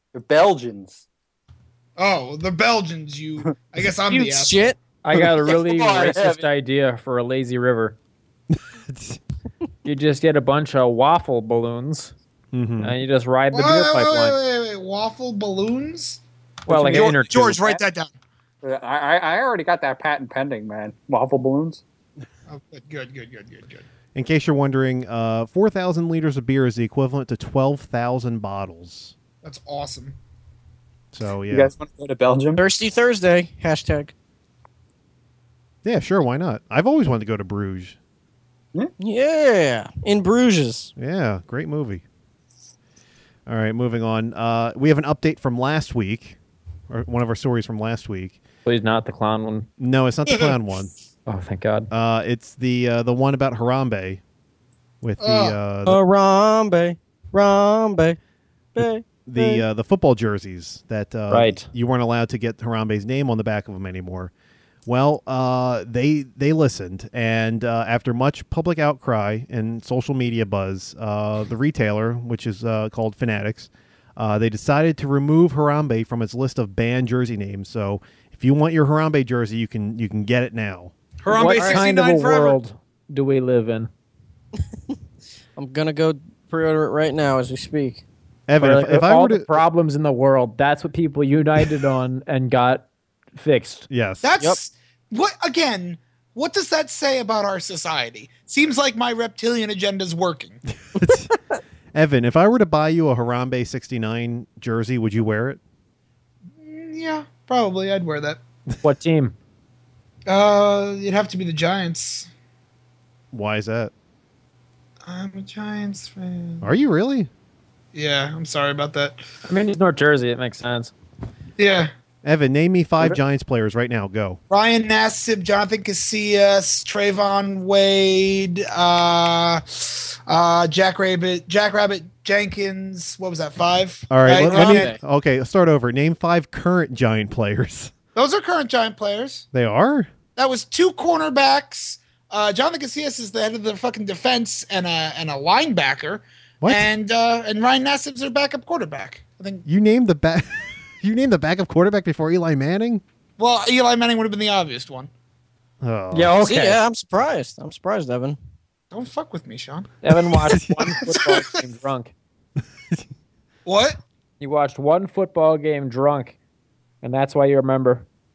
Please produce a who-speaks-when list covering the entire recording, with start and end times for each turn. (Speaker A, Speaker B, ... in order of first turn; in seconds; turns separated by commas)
Speaker A: 0.1-1.0, Speaker B: 2.0-4.7, Speaker C: 4.1-4.8, Speaker D: 5.0-8.0, Speaker A: 5.1-6.4, Speaker E: 8.5-9.2, Speaker D: 9.8-12.1, Speaker E: 12.5-12.9, Speaker D: 12.8-14.4, Speaker B: 13.5-16.2, Speaker D: 16.7-17.6, Speaker A: 16.7-17.8, Speaker B: 16.9-18.1, Speaker A: 18.6-21.8, Speaker B: 22.5-23.8, Speaker E: 24.1-29.1, Speaker B: 29.4-30.1, Speaker E: 31.1-31.7, Speaker A: 31.5-32.6, Speaker C: 32.5-34.1, Speaker E: 35.8-38.0, Speaker C: 39.0-40.9, Speaker E: 41.0-42.0, Speaker E: 43.5-46.4, Speaker E: 46.9-48.4, Speaker D: 48.6-49.7, Speaker E: 49.8-50.9, Speaker D: 51.3-51.9, Speaker E: 51.9-54.2, Speaker E: 55.0-56.0, Speaker B: 55.2-55.6, Speaker C: 55.9-58.2, Speaker C: 58.7-59.6, Speaker E: 59.2-64.3, Speaker D: 61.3-61.7, Speaker E: 64.8-80.9, Speaker B: 81.2-82.6, Speaker D: 81.3-83.9, Speaker C: 85.5-88.0, Speaker E: 88.5-89.5, Speaker D: 88.6-93.9, Speaker E: 93.9-94.3, Speaker B: 94.2-100.6, Speaker E: 100.9-101.3, Speaker E: 101.9-105.6, Speaker B: 106.6-108.4, Speaker D: 108.8-109.3, Speaker B: 110.3-112.3, Speaker E: 113.3-113.9, Speaker B: 115.0-116.7, Speaker E: 116.6-117.3, Speaker B: 117.9-119.2, Speaker D: 119.5-120.9, Speaker B: 121.6-121.9, Speaker E: 122.2-124.4, Speaker B: 124.5-134.9, Speaker E: 134.1-137.9, Speaker C: 134.3-135.0, Speaker B: 138.1-139.4, Speaker E: 139.5-140.1, Speaker B: 140.3-149.7, Speaker E: 146.6-146.9, Speaker E: 149.7-153.0, Speaker B: 153.4-155.1, Speaker E: 155.8-156.4, Speaker C: 156.2-158.4, Speaker D: 156.4-156.7, Speaker B: 158.9-159.9, Speaker D: 160.0-162.1, Speaker B: 160.8-161.5, Speaker B: 163.7-164.0, Speaker D: 164.4-166.3, Speaker D: 167.0-168.0